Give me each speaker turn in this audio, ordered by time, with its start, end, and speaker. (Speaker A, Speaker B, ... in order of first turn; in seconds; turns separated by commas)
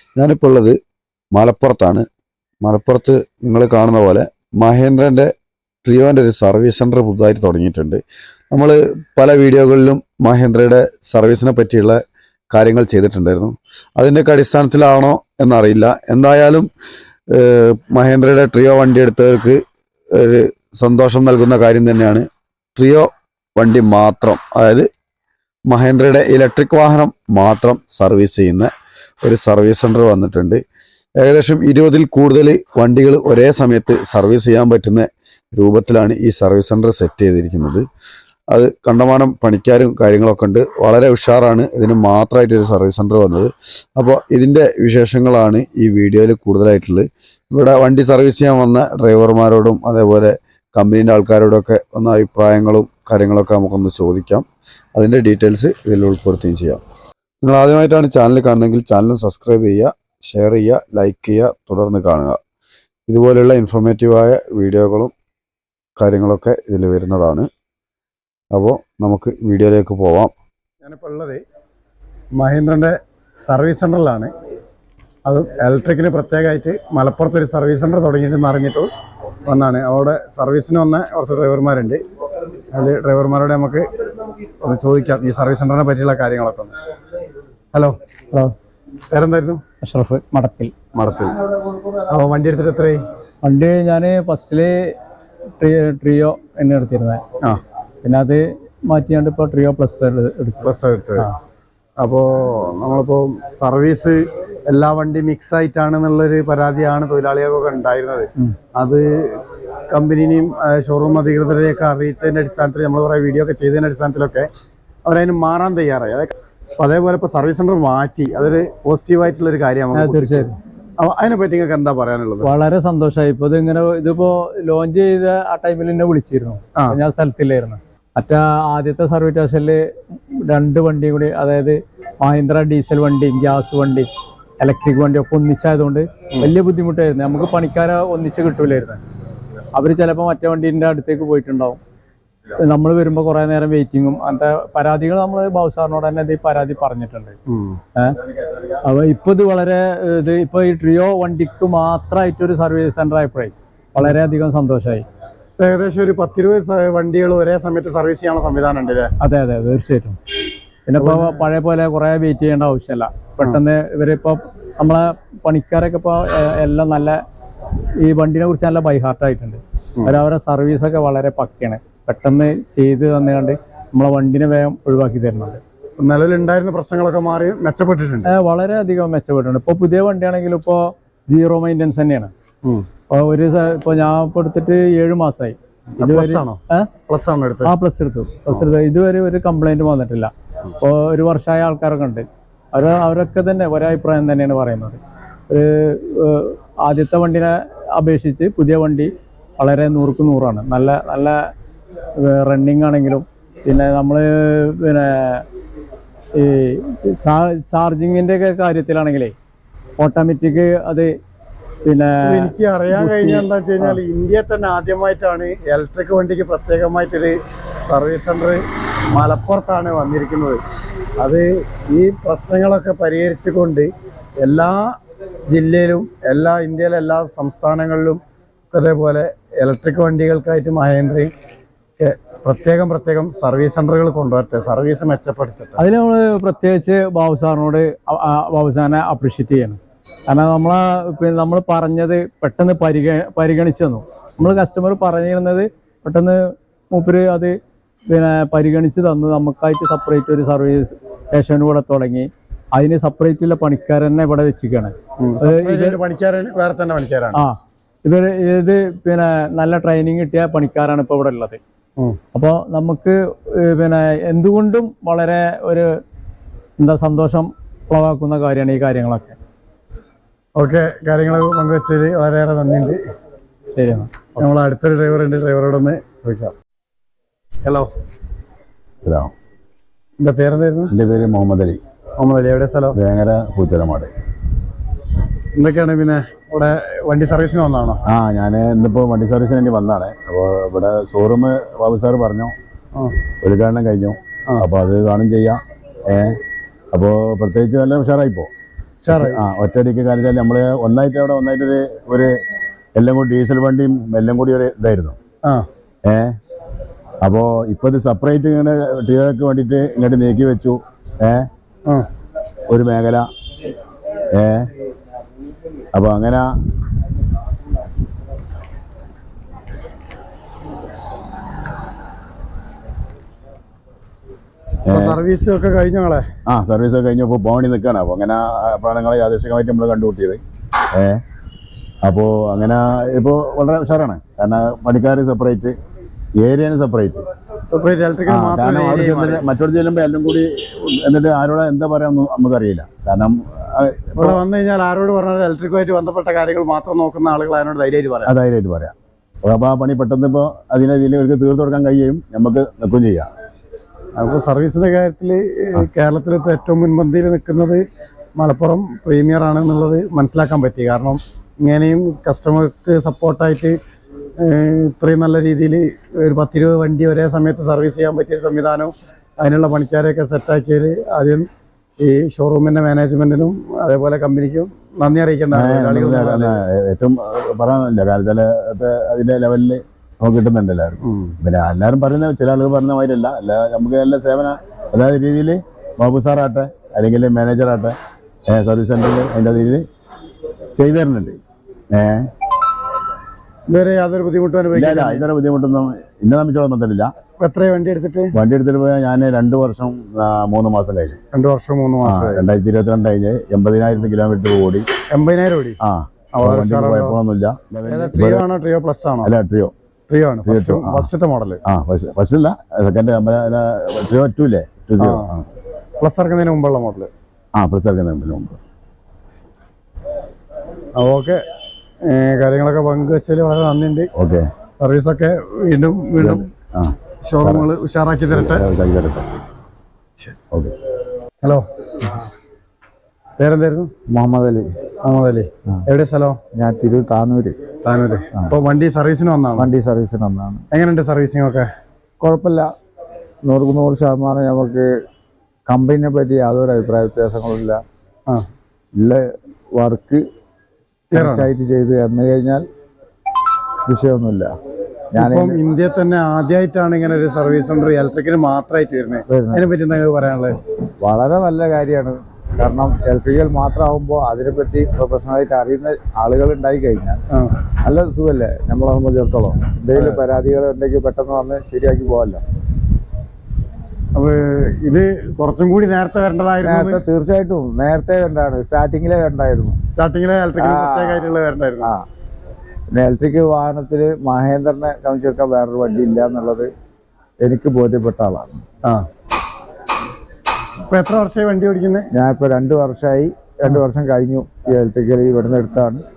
Speaker A: 0.2-0.8, Speaker A: 1.3-2.1, Speaker A: 2.6-16.7, Speaker A: 17.3-24.9, Speaker A: 25.7-28.7, Speaker A: 29.2-30.6, Speaker A: 31.2-37.8, Speaker A: 38.5-56.8, Speaker A: 57.4-62.4, Speaker A: 63.1-65.1, Speaker A: 66.0-67.5, Speaker A: 68.5-70.3, Speaker B: 70.8-71.4, Speaker B: 72.4-74.3, Speaker B: 75.2-78.9, Speaker B: 79.5-82.0, Speaker B: 82.7-83.9, Speaker B: 84.6-86.7, Speaker B: 89.1-89.6, Speaker C: 89.8-90.7, Speaker B: 91.0-91.4, Speaker B: 92.1-93.0, Speaker C: 93.4-94.9, Speaker C: 95.6-97.2, Speaker C: 98.0-101.3, Speaker B: 100.6-101.3, Speaker B: 102.0-114.5, Speaker B: 115.1-122.5, Speaker C: 119.9-120.6, Speaker C: 122.4-129.8, Speaker C: 130.4-134.1, Speaker C: 134.6-139.0, Speaker C: 139.7-141.8, Speaker C: 142.6-147.4, Speaker B: 147.5-147.8, Speaker C: 148.8-155.1, Speaker B: 155.6-159.1, Speaker C: 159.2-160.2, Speaker C: 160.9-167.2, Speaker B: 161.0-161.4, Speaker C: 168.0-175.6, Speaker B: 176.0-178.3, Speaker C: 178.2-182.3, Speaker C: 183.1-186.9, Speaker B: 186.0-187.7, Speaker C: 187.6-201.4, Speaker C: 202.2-205.4, Speaker C: 206.4-209.3, Speaker C: 210.0-211.1, Speaker C: 211.8-214.0, Speaker B: 212.2-220.6, Speaker B: 221.2-224.9, Speaker B: 225.5-231.3, Speaker B: 232.0-235.8, Speaker C: 235.8-246.4, Speaker C: 246.9-247.6, Speaker C: 248.1-256.0, Speaker B: 255.2-257.4, Speaker C: 257.3-261.6, Speaker C: 262.3-265.9, Speaker C: 266.8-269.4, Speaker B: 270.6-273.0, Speaker C: 273.8-274.5, Speaker B: 274.4-276.5, Speaker B: 277.6-277.9, Speaker D: 279.0-279.3, Speaker B: 280.2-280.9, Speaker D: 280.9-281.8, Speaker B: 282.2-283.0, Speaker D: 282.9-284.1, Speaker B: 285.6-288.0, Speaker D: 288.1-292.5, Speaker D: 293.4-296.4, Speaker D: 296.9-298.5, Speaker B: 299.0-299.4, Speaker D: 299.1-302.4, Speaker D: 303.0-305.2, Speaker D: 306.1-306.4, Speaker D: 307.2-311.5, Speaker D: 312.7-313.3, Speaker D: 314.4-314.7, Speaker D: 315.9-316.5, Speaker D: 324.9-325.2, Speaker B: 324.9-326.3, Speaker D: 326.5-330.4, Speaker D: 330.9-331.2, Speaker D: 332.0-335.8, Speaker D: 336.4-337.2, Speaker B: 337.7-339.4, Speaker D: 338.3-344.4, Speaker B: 344.2-348.3, Speaker D: 348.3-353.3, Speaker B: 354.2-357.8, Speaker B: 358.4-363.8, Speaker B: 364.4-371.5, Speaker B: 372.0-376.6, Speaker D: 375.5-387.9, Speaker B: 381.0-381.4, Speaker D: 388.5-389.8, Speaker D: 390.8-391.4, Speaker D: 391.9-392.3, Speaker B: 393.7-395.2, Speaker D: 394.7-397.1, Speaker B: 397.4-398.4, Speaker D: 398.3-401.2, Speaker B: 401.3-402.4, Speaker D: 402.0-404.9, Speaker B: 405.1-405.8, Speaker D: 405.8-408.4, Speaker B: 406.3-407.2, Speaker B: 407.9-409.3, Speaker D: 409.2-409.7, Speaker B: 410.1-411.6, Speaker D: 410.5-411.1, Speaker D: 411.7-415.5, Speaker B: 415.0-415.3, Speaker B: 416.0-417.1, Speaker D: 417.6-418.6, Speaker B: 420.9-421.4, Speaker B: 422.0-424.1, Speaker D: 424.2-424.5, Speaker B: 424.8-426.5, Speaker D: 426.2-427.7, Speaker B: 427.2-428.6, Speaker D: 428.3-429.3, Speaker B: 433.4-433.9, Speaker E: 434.1-434.7, Speaker B: 435.0-436.4, Speaker E: 436.6-437.6, Speaker B: 437.8-439.7, Speaker E: 439.6-440.6, Speaker B: 440.7-441.7, Speaker E: 442.2-442.7, Speaker E: 443.4-444.9, Speaker E: 445.7-447.8, Speaker E: 449.8-450.2, Speaker E: 451.1-452.6, Speaker B: 451.1-451.5, Speaker E: 453.9-454.5, Speaker E: 455.1-455.6, Speaker B: 455.2-460.6, Speaker E: 459.3-459.7, Speaker E: 461.0-467.2, Speaker B: 467.3-467.6, Speaker E: 467.8-472.4, Speaker B: 469.9-470.2, Speaker B: 474.1-477.0, Speaker E: 476.6-479.8, Speaker B: 479.9-481.9, Speaker E: 480.6-482.0, Speaker E: 482.9-486.7, Speaker E: 487.4-488.6, Speaker B: 490.9-492.1, Speaker E: 492.1-496.0